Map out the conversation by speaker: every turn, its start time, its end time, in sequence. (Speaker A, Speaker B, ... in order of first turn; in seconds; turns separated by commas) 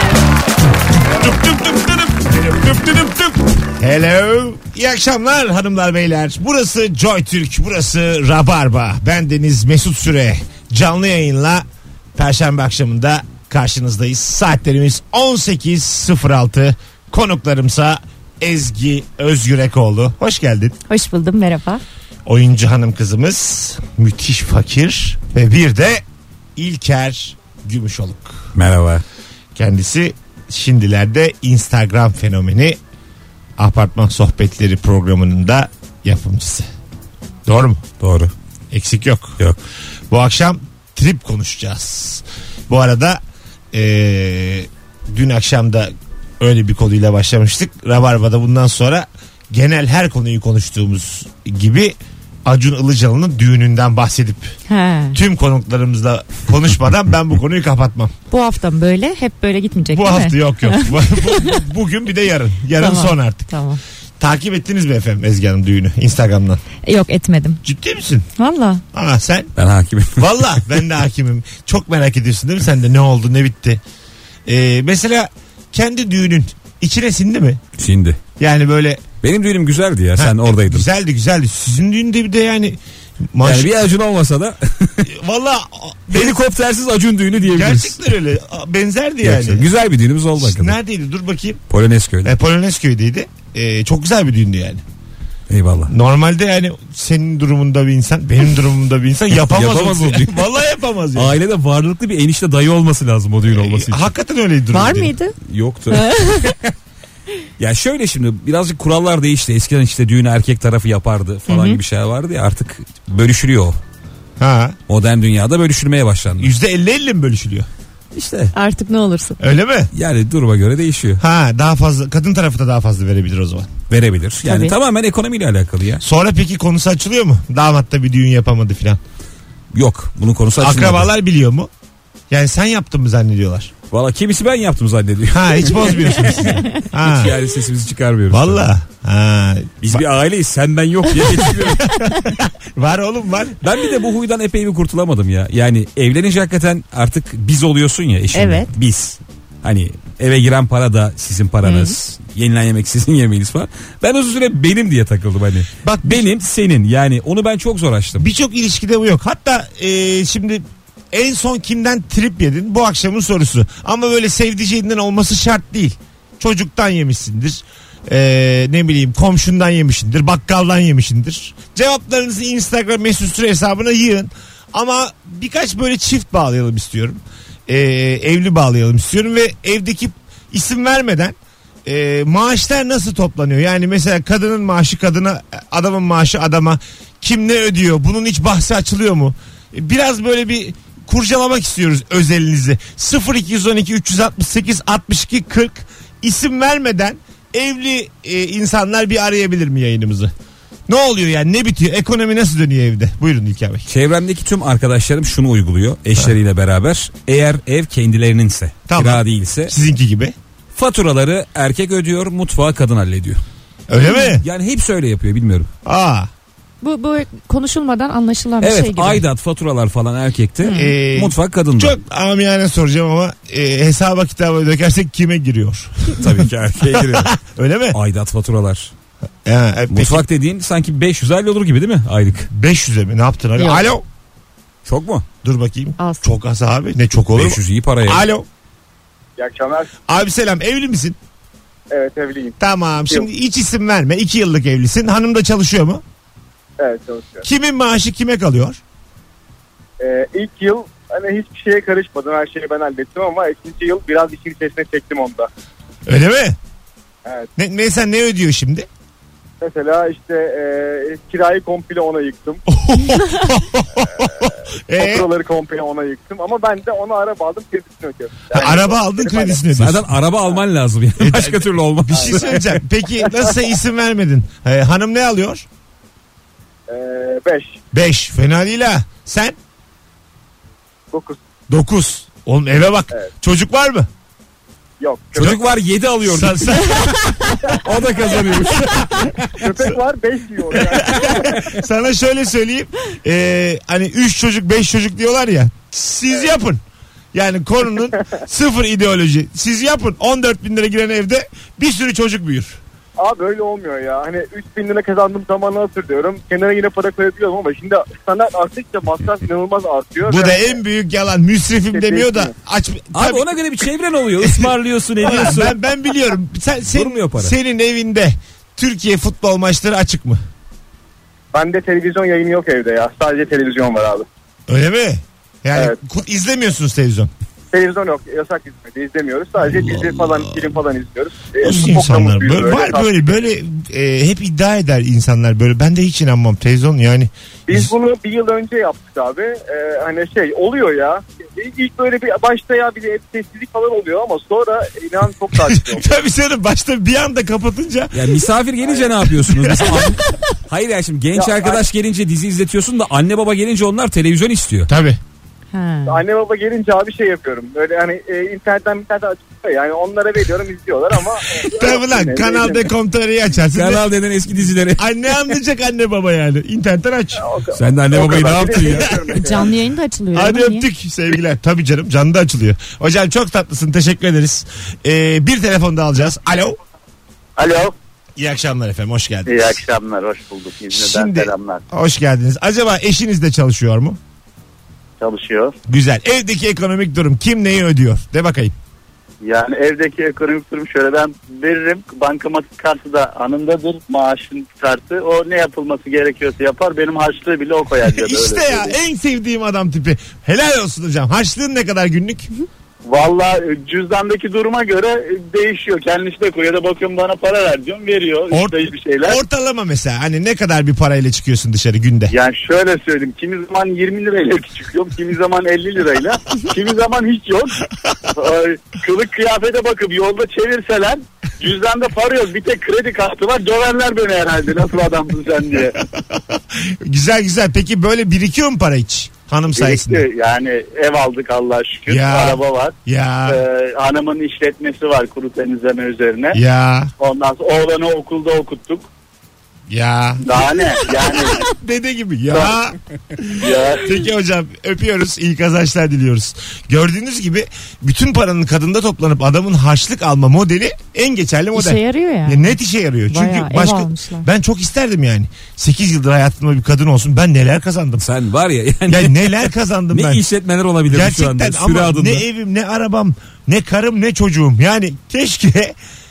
Speaker A: 1.1-20.7, Speaker B: 20.9-21.8, Speaker A: 22.2-26.0, Speaker A: 26.6-28.5, Speaker C: 28.5-29.0, Speaker A: 29.5-32.8, Speaker A: 33.6-36.7, Speaker A: 37.5-37.8, Speaker C: 38.0-38.3, Speaker A: 38.7-39.4, Speaker A: 40.1-43.2, Speaker A: 43.7-54.5, Speaker B: 54.7-55.2, Speaker A: 55.1-58.1, Speaker B: 58.3-61.6, Speaker A: 59.9-63.5, Speaker B: 62.8-63.8, Speaker A: 64.2-66.6, Speaker B: 66.8-67.6, Speaker A: 67.6-68.3, Speaker B: 68.4-68.8, Speaker A: 68.9-69.5, Speaker C: 69.5-70.5, Speaker A: 70.2-73.8, Speaker A: 74.5-77.6, Speaker C: 77.8-78.2, Speaker A: 78.4-79.1, Speaker C: 79.2-80.8, Speaker A: 80.2-82.8, Speaker A: 83.3-83.7, Speaker C: 83.4-85.1, Speaker A: 85.0-86.4, Speaker C: 86.1-88.1, Speaker A: 87.4-89.7, Speaker C: 89.2-90.7, Speaker A: 90.4-91.6, Speaker C: 91.7-92.3, Speaker A: 92.2-94.8, Speaker C: 95.5-95.9, Speaker A: 95.9-101.4, Speaker C: 99.4-100.5, Speaker C: 101.1-104.1, Speaker A: 103.5-105.1, Speaker B: 104.7-105.3, Speaker C: 105.4-106.5, Speaker B: 105.9-106.5, Speaker C: 107.6-113.8, Speaker B: 111.5-111.8, Speaker A: 114.4-114.8, Speaker C: 114.9-116.5, Speaker A: 116.4-117.7, Speaker C: 118.1-118.5, Speaker B: 118.5-119.4, Speaker A: 119.4-119.9, Speaker C: 119.9-121.2, Speaker A: 121.2-123.7, Speaker C: 123.9-126.0, Speaker B: 124.4-124.7, Speaker A: 126.0-129.0, Speaker C: 129.7-131.1, Speaker A: 130.6-131.7, Speaker A: 132.3-133.7, Speaker C: 133.9-138.7, Speaker A: 135.3-137.3, Speaker A: 138.3-140.0, Speaker C: 139.8-141.9, Speaker A: 141.8-143.6, Speaker C: 143.6-158.2, Speaker B: 148.3-148.7, Speaker B: 151.6-151.9, Speaker A: 155.8-156.3, Speaker A: 158.2-200.3, Speaker A: 200.9-203.8, Speaker C: 203.8-209.7, Speaker A: 208.9-210.3, Speaker C: 210.7-213.4, Speaker A: 213.9-214.4, Speaker C: 214.4-215.7, Speaker A: 215.8-216.3, Speaker B: 216.8-219.2, Speaker C: 218.6-221.9, Speaker B: 220.6-220.9, Speaker A: 220.7-228.0, Speaker C: 226.2-227.4, Speaker C: 227.9-228.9, Speaker A: 229.4-230.2, Speaker C: 229.9-232.5, Speaker A: 232.5-234.0, Speaker B: 233.6-233.8, Speaker C: 234.8-235.2, Speaker A: 235.4-238.5, Speaker B: 236.0-236.3, Speaker C: 237.3-238.2, Speaker D: 239.4-239.9, Speaker A: 240.1-241.2, Speaker D: 241.9-242.6, Speaker A: 242.6-246.0, Speaker D: 246.8-247.4, Speaker A: 247.4-248.8, Speaker D: 250.0-255.5, Speaker A: 256.1-256.6, Speaker D: 257.2-257.5, Speaker A: 257.6-258.9, Speaker D: 259.6-262.6, Speaker A: 262.7-265.3, Speaker D: 264.2-269.6, Speaker A: 268.5-270.1, Speaker C: 269.7-272.7, Speaker A: 271.2-275.6, Speaker D: 272.1-272.6, Speaker D: 276.9-277.8, Speaker A: 277.9-279.6, Speaker D: 281.1-281.4, Speaker A: 281.7-284.1, Speaker D: 285.0-285.6, Speaker C: 285.3-286.7, Speaker A: 286.2-287.5, Speaker C: 287.7-289.6, Speaker A: 289.0-289.3, Speaker D: 289.6-291.7, Speaker A: 290.8-296.8, Speaker A: 297.3-302.8, Speaker D: 303.2-310.8, Speaker A: 310.2-313.5, Speaker D: 311.9-312.5, Speaker C: 313.1-315.8, Speaker A: 314.4-320.4, Speaker C: 316.9-317.5, Speaker D: 321.5-324.3, Speaker A: 324.7-327.3, Speaker D: 327.7-333.4, Speaker A: 330.0-330.4, Speaker A: 331.6-337.9, Speaker D: 337.7-346.1, Speaker A: 345.7-348.3, Speaker C: 348.1-354.9, Speaker A: 349.4-350.0, Speaker D: 351.3-351.8, Speaker A: 354.9-355.2, Speaker B: 355.7-356.2, Speaker D: 356.1-362.8, Speaker A: 361.7-364.1, Speaker C: 363.7-365.3, Speaker A: 365.0-367.4, Speaker D: 367.4-369.7, Speaker C: 367.7-369.2, Speaker A: 368.9-369.2, Speaker B: 369.3-370.9, Speaker A: 370.3-376.8, Speaker E: 377.6-377.9, Speaker A: 378.4-379.8, Speaker E: 379.4-381.8, Speaker A: 380.9-384.2, Speaker E: 385.2-385.7, Speaker A: 385.9-388.7, Speaker E: 389.4-398.9, Speaker A: 398.1-402.5, Speaker E: 403.0-409.4, Speaker A: 408.5-412.3, Speaker E: 412.3-425.9, Speaker A: 426.2-430.2, Speaker E: 429.7-432.9, Speaker A: 432.1-433.6, Speaker E: 433.5-436.6, Speaker A: 436.5-437.1, Speaker E: 437.2-439.1, Speaker A: 439.9-440.4, Speaker E: 440.4-441.6, Speaker A: 441.5-458.2, Speaker E: 442.5-442.8, Speaker E: 443.5-444.1, Speaker B: 451.7-452.7, Speaker B: 453.3-454.5, Speaker C: 458.2-462.4, Speaker A: 459.1-460.4, Speaker A: 461.1-465.9